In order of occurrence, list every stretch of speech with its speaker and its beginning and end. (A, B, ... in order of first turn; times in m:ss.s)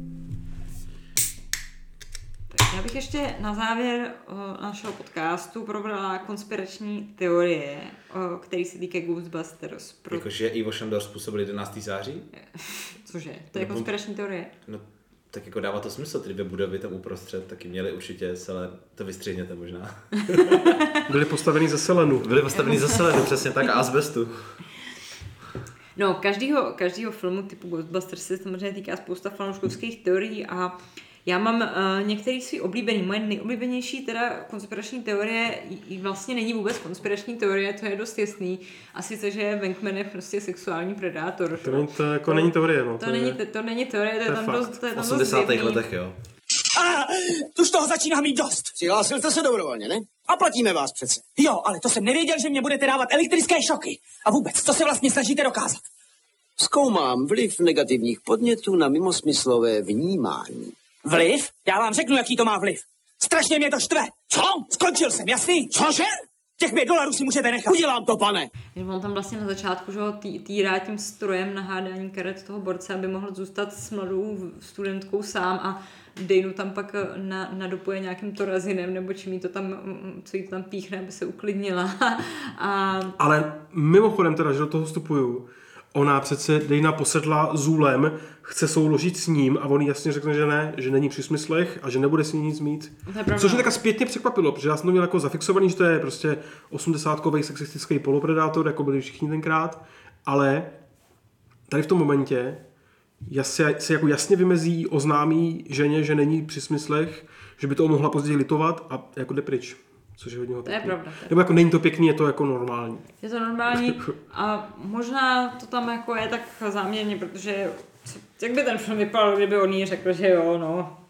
0:02.5-0:10.2 A
0:10.1-0:12.3 B
0:12.4-0:14.5 A
0:13.6-0:13.9 B
0:14.7-0:20.7 B
0:21.1-0:22.3 C
0:22.2-0:24.6 B
0:26.0-0:45.8 A
0:41.6-0:43.4 C
0:44.2-0:44.7 C
0:44.9-0:46.2 B
0:46.8-0:48.8 D
0:48.8-0:51.1 E
0:50.3-0:50.5 D
0:51.1-0:55.8 D
0:56.6-1:00.8 E
1:01.0-1:08.5 D
1:08.8-1:23.2 A
1:23.2-1:40.7 C
1:33.1-1:33.7 A
1:41.7-1:42.6 C
1:43.3-1:53.1 C
1:50.6-1:51.4 A
1:53.2-2:01.0 A
1:53.9-1:54.1 C